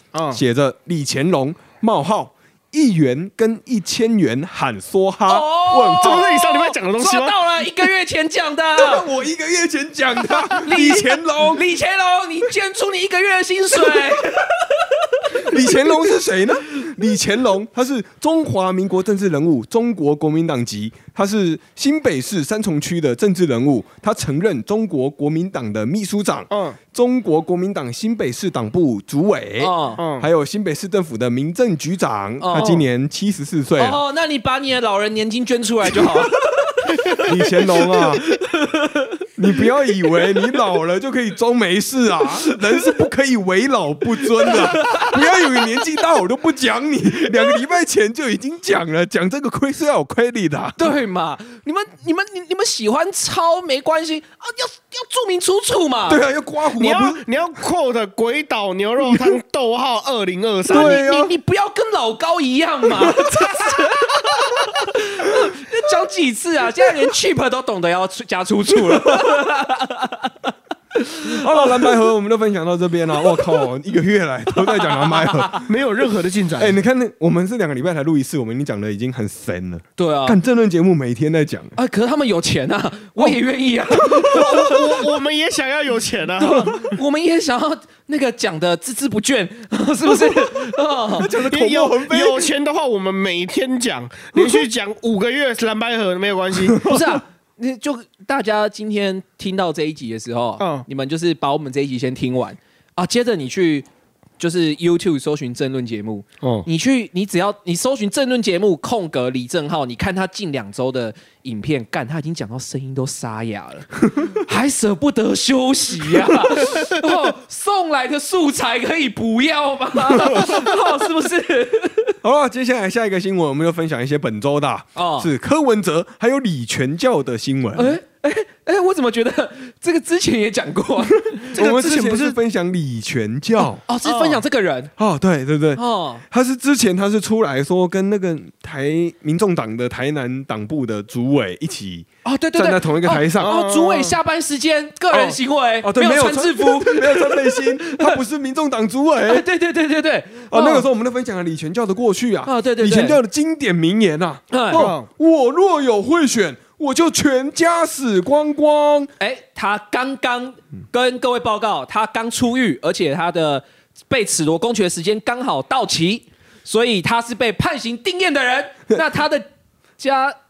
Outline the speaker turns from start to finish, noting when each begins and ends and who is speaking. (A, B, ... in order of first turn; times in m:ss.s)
0:00.1-0:00.4 A
0:00.3-0:06.3 B
0:05.3-0:09.1 C
0:06.0-0:07.4 A
0:08.8-0:11.6 B
0:10.6-0:15.8 C
0:15.4-0:34.0 B
0:26.5-0:26.8 A
0:29.6-0:30.0 C
0:30.0-0:30.3 A
0:32.4-0:32.8 C
0:33.8-0:39.2 C
0:37.2-0:38.2 B
0:39.4-0:50.9 B
0:42.5-0:42.8 C
0:44.4-0:45.4 C
0:50.8-0:56.2 C
0:56.1-0:57.3 B
0:56.8-1:01.3 A
1:00.7-1:01.3 B
1:00.7-1:12.0 C
1:08.9-1:09.4 B
1:11.2-1:15.7 B
1:14.6-1:15.6 C
1:15.6-1:16.8 A
1:16.6-1:21.8 B
1:20.0-1:20.4 C
1:21.8-1:25.0 C
1:24.0-1:26.8 A
1:26.4-1:31.3 C
1:31.2-1:32.5 B
1:31.4-1:36.8 A
1:36.7-1:37.1 B
1:36.8-1:43.9 C
1:40.6-1:40.9 A
1:44.4-2:02.2 C
2:00.1-2:00.7 B
2:02.2-2:08.0 B
2:05.0-2:05.3 C
2:07.8-2:11.5 C
2:11.4-2:13.8 B
2:11.5-2:12.4 A
2:13.6-2:14.9 C
2:14.0-2:14.4 A
2:15.0-2:23.5 B
2:15.8-2:16.2 C
2:22.2-2:28.2 C
2:23.4-2:24.2 A
2:25.1-2:29.4 B
2:29.3-2:30.9 C
2:30.5-2:39.1 B
2:32.4-2:33.2 C
2:34.5-2:34.9 C
2:34.7-2:35.1 A
2:39.2-2:49.5 C
2:50.0-2:50.4 C